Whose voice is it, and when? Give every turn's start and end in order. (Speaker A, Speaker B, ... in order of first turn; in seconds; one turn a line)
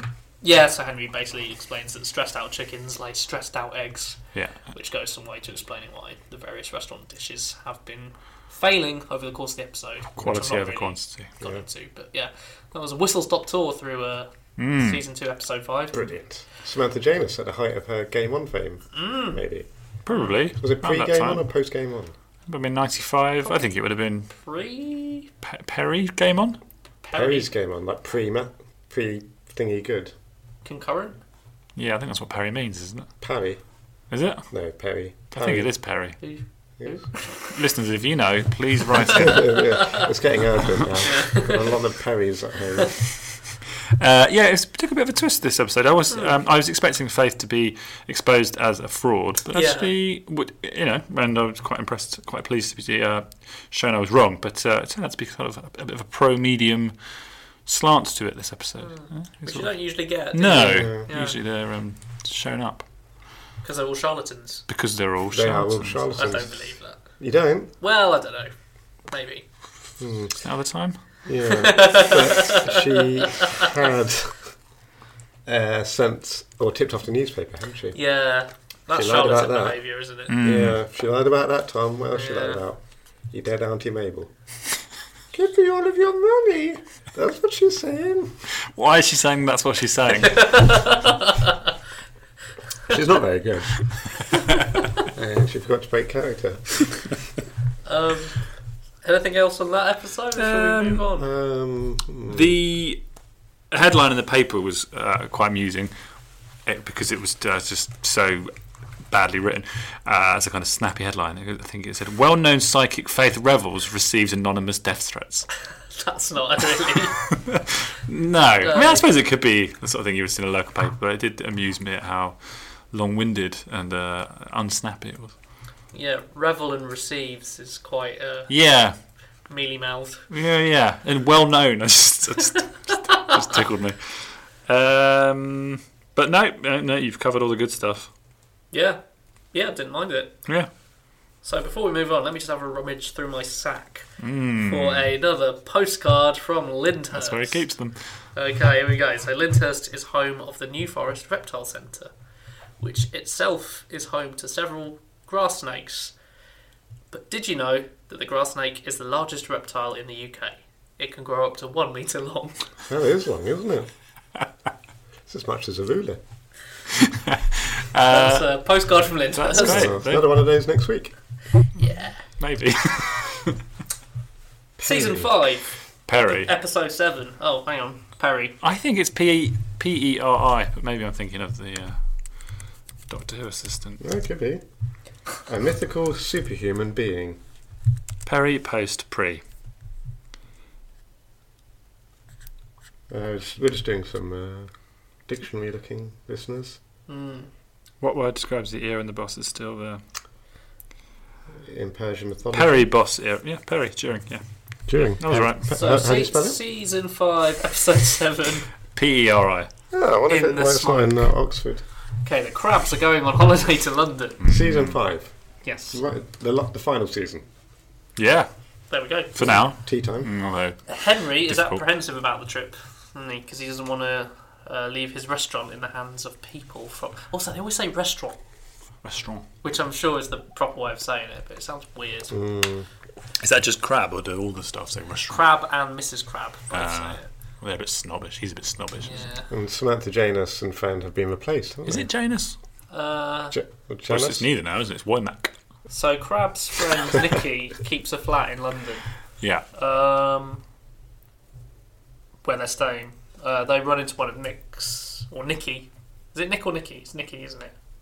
Speaker A: 0.4-16.1
Speaker B: 4.3-4.7
Speaker B: 10.2-11.3
Speaker B: 14.6-15.0
Speaker C: 15.9-19.7
Speaker A: 18.9-19.4
Speaker B: 20.1-21.4
Speaker C: 20.5-22.1
Speaker B: 22.5-24.3
Speaker A: 24.3-25.3
Speaker B: 25.4-26.6
Speaker A: 27.0-27.5
Speaker C: 27.1-30.1
Speaker A: 30.6-31.2
Speaker B: 31.8-33.1
Speaker C: 33.2-33.6
Speaker B: 34.1-34.5
Speaker C: 34.5-35.7
Speaker B: 35.3-36.2
Speaker A: 36.2-37.5
Speaker C: 36.8-37.0
Speaker B: 37.4-39.6
Speaker C: 39.1-43.1
Speaker A: 41.0-41.7
Speaker B: 44.0-62.9
Speaker A: 49.5-49.9
Speaker A: 58.8-61.4
Speaker C: 60.5-61.1
Speaker A: 63.6-64.6
Speaker B: 64.7-66.1
Speaker C: 65.3-67.7
Speaker A: 66.2-67.2
Speaker A: 67.8-68.5
Speaker A: 69.0-69.5
Speaker C: 70.0-70.4
Speaker B: 70.4-71.2
Speaker C: 71.2-74.5
Speaker A: 71.5-73.7
Speaker C: 75.4-78.0
Speaker A: 77.9-80.3
Speaker C: 78.9-84.3
Speaker B: 80.3-80.8
Speaker A: 82.1-82.6
Speaker C: 85.3-88.4
Speaker B: 88.7-91.0
Speaker A: 90.4-91.5
Speaker C: 92.9-94.2
Speaker C: 95.0-97.2
Speaker A: 97.8-101.3
Speaker B: 100.4-101.0
Speaker C: 101.2-102.6
Speaker B: 102.3-103.0
Speaker B: 103.7-105.9
Speaker B: 106.6-108.5
Speaker B: 109.1-115.5
Speaker A: 115.9-117.4
Speaker B: 118.0-125.3
Speaker A: 118.6-119.1
Speaker A: 125.9-128.5
Speaker B: 128.5-128.9
Speaker A: 129.4-130.3
Speaker B: 130.3-138.1
Speaker A: 138.7-139.0
Speaker A: 139.5-140.7
Speaker A: 141.4-152.1
Speaker B: 144.2-145.1
Speaker B: 147.1-148.2
Speaker A: 152.8-156.1
Speaker A: 157.1-162.7
Speaker C: 162.9-163.9
Speaker C: 165.3-166.2
Speaker B: 167.7-170.2
Speaker A: 168.1-169.9
Speaker C: 169.6-171.1
Speaker A: 171.7-172.2
Speaker B: 172.4-173.6
Speaker C: 174.8-175.3
Speaker A: 174.8-178.6
Speaker B: 176.1-176.5
Speaker B: 178.6-184.0
Speaker C: 184.0-184.6
Speaker C: 185.2-187.4
Speaker B: 188.2-189.4
Speaker C: 193.1-194.7
Speaker C: 195.2-196.8
Speaker A: 197.1-197.5
Speaker B: 198.0-200.0
Speaker C: 201.6-202.9
Speaker B: 202.5-205.7
Speaker C: 204.9-206.6
Speaker A: 205.7-208.7
Speaker B: 208.9-209.7
Speaker C: 209.9-211.8
Speaker A: 210.3-211.3
Speaker A: 212.2-214.4
Speaker B: 214.4-214.9
Speaker C: 214.5-215.3
Speaker A: 215.6-216.0
Speaker C: 215.9-217.4
Speaker B: 218.2-218.5
Speaker A: 218.9-219.3
Speaker B: 219.3-221.8
Speaker C: 219.4-220.3
Speaker A: 220.9-228.4
Speaker B: 229.0-229.4
Speaker A: 229.6-232.3
Speaker C: 232.3-232.9
Speaker B: 233.4-235.4
Speaker A: 235.3-237.3
Speaker B: 236.7-239.3
Speaker A: 239.0-239.5
Speaker C: 239.5-242.1
Speaker B: 241.8-242.6
Speaker A: 242.9-243.6
Speaker C: 243.5-244.4
Speaker B: 244.1-245.5
Speaker A: 245.9-249.1
Speaker B: 249.4-249.6
Speaker A: 249.7-250.6
Speaker A: 252.4-257.7